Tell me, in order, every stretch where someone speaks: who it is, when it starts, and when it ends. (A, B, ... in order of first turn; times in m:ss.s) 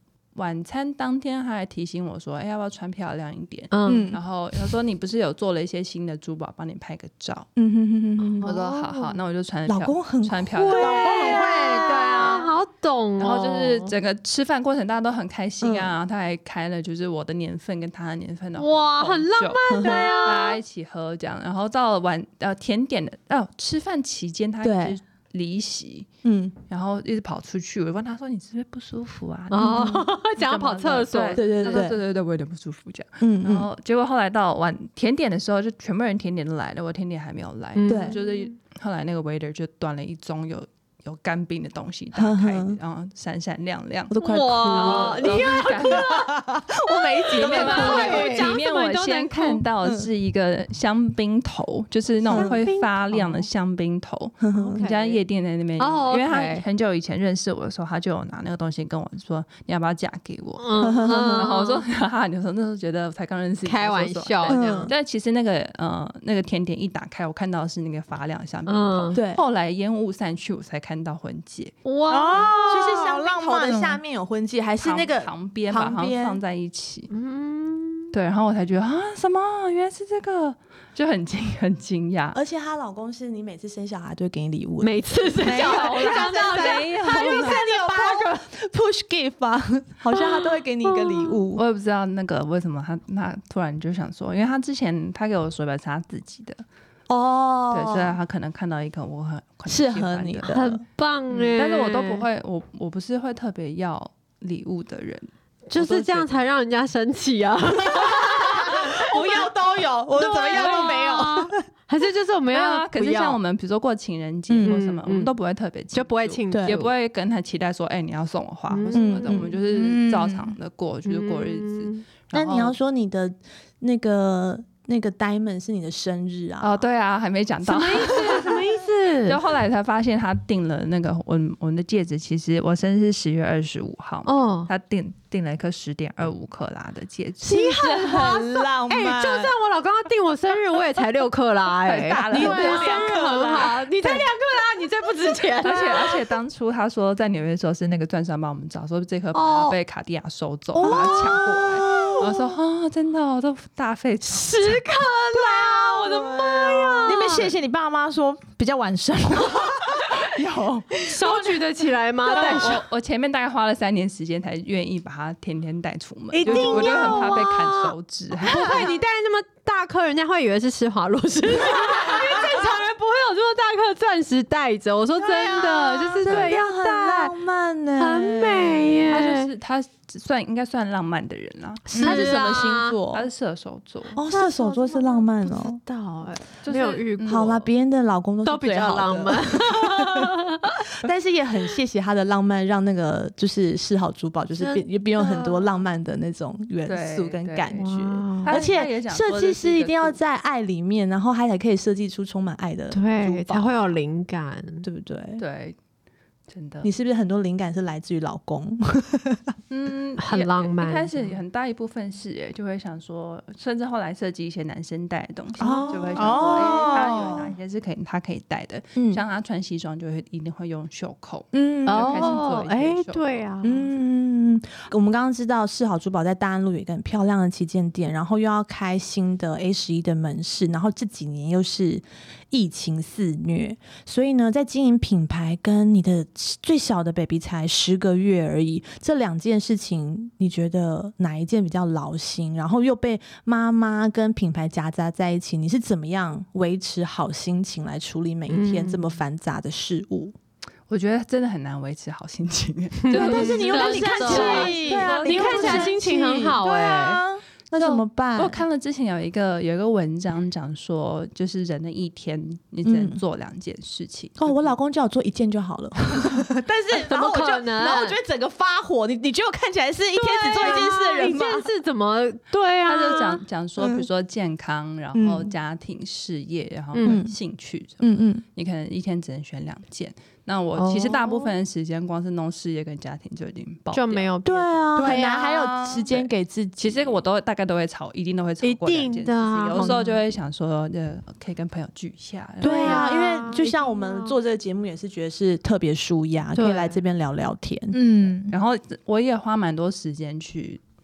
0:00.3-0:07.5 A
0:03.7-0:04.1 B
0:03.9-0:04.2 C
0:07.6-0:08.5 C
0:08.4-0:09.2 B
0:08.4-0:11.4 A
0:09.7-0:11.1 C
0:10.5-0:13.9 B
0:10.8-0:12.5 D
0:13.2-0:26.1 A
0:15.6-0:15.9 C
0:18.6-0:20.6 B
0:19.7-0:20.2 C
0:24.6-0:25.0 C
0:26.2-0:26.6 C
0:26.7-0:44.1 A
0:29.5-0:31.8 B
0:29.6-0:30.0 C
0:31.3-0:32.0 C
0:33.2-0:33.7 C
0:37.8-0:38.5 B
0:37.9-0:38.2 C
0:42.1-0:42.8 C
0:44.1-0:48.5 C
0:44.2-0:46.3 B
0:44.6-0:46.2 A
0:46.9-0:49.6 B
0:47.3-1:11.7 A
0:47.6-0:48.5 D
0:52.3-0:52.6 C
0:52.3-0:53.4 B
0:54.4-0:54.9 C
0:54.5-0:55.2 B
0:55.8-0:56.6 B
1:00.6-1:01.8 B
1:00.8-1:01.5 C
1:03.6-1:04.9 B
1:04.5-1:04.9 C
1:08.7-1:09.2 B
1:09.1-1:09.4 C
1:11.8-1:13.0 B
1:12.1-1:14.0 D
1:12.6-1:16.4 C
1:14.8-1:17.1 A
1:17.1-1:18.1 B
1:18.1-1:22.4 A
1:22.3-1:31.6 C
1:24.8-1:28.4 B
1:25.4-1:27.6 A
1:30.1-1:31.4 B
1:31.5-1:36.6 A
1:37.1-1:38.2 C
1:37.7-1:40.5 A
1:39.7-1:40.8 C
1:40.5-1:42.2 B
1:41.3-1:46.3 A
1:45.7-1:49.4 B
1:47.9-1:51.6 C
1:50.2-1:53.4 B
1:50.6-1:51.0 A
1:52.5-2:02.7 A
1:54.5-1:54.8 C
1:54.6-1:55.3 B
1:55.9-1:56.9 B
1:56.5-1:56.8 C
1:58.7-1:59.1 B
1:58.9-1:59.6 C
1:59.5-2:00.5 D
2:01.0-2:02.0 B
2:02.3-2:06.8 C
2:06.6-2:08.6 A
2:07.6-2:09.4 B
2:09.2-2:17.6 A
2:14.2-2:14.7 B
2:17.4-2:19.5 C
2:17.5-2:26.2 B
2:21.8-2:23.0 A
2:22.1-2:23.9 C
2:22.3-2:23.2 D
2:25.6-2:34.9 A
2:29.3-2:29.8 B
2:30.8-2:31.2 B
2:30.8-2:32.5 C
2:34.3-2:37.5 B
2:36.0-2:37.1 C
2:37.0-2:40.4 D
2:40.0-2:41.1 A
2:41.0-2:42.8 B
2:42.3-2:48.8 A
2:46.3-2:57.3 B
2:46.4-2:47.4 D
2:55.2-2:59.0 C
2:56.2-2:56.5 A
2:58.0-2:59.5 B
2:59.1-3:01.9 A
3:01.9-3:03.0 B
3:01.9-3:02.3 D
3:02.0-3:03.3 C
3:03.1-3:04.2 A
3:04.1-3:07.6 B
3:04.2-3:05.8 C
3:06.6-3:07.6 A
3:07.2-3:10.3 C
3:08.4-3:10.8 B
3:11.0-3:23.7 C
3:14.6-3:15.6 B
3:16.8-3:17.9 A
3:17.7-3:18.5 B
3:18.4-3:20.2 A
3:22.9-3:24.8 B
3:24.8-3:25.4 C
3:25.4-3:25.8 A
3:26.5-3:26.9 A
3:26.8-3:29.5 C
3:29.7-3:43.2 A
3:30.2-3:31.4 B
3:35.6-3:37.2 C
3:35.6-3:36.2 B
3:36.2-3:37.5 D
3:39.0-3:39.2 C
3:41.5-3:42.4 C
3:41.8-3:43.8 B
3:43.6-4:10.3 C
4:08.5-4:09.0 B
4:10.9-4:15.8 A
4:13.1-4:17.2 B
4:13.1-4:16.0 C
4:13.7-4:17.2 D
4:17.7-4:18.6 C
4:17.8-4:24.7 A
4:22.8-4:23.2 C
4:24.4-4:31.7 C
4:26.9-4:28.2 B
4:30.2-4:33.4 B
4:32.8-4:44.3 A
4:33.8-4:34.1 C
4:35.1-4:35.5 C
4:36.9-4:37.2 B
4:37.0-4:37.4 C
4:38.0-4:38.4 C
4:40.8-4:41.5 B
4:43.9-4:45.2 B
4:44.4-4:47.2 C
4:45.0-4:46.0 D
4:46.1-4:53.1 A
4:48.6-4:50.1 B
4:49.7-4:50.1 C
4:52.6-4:58.0 C
4:52.6-4:54.3 B
4:56.5-4:57.0 B
4:57.9-4:58.5 D
4:58.5-5:00.8 A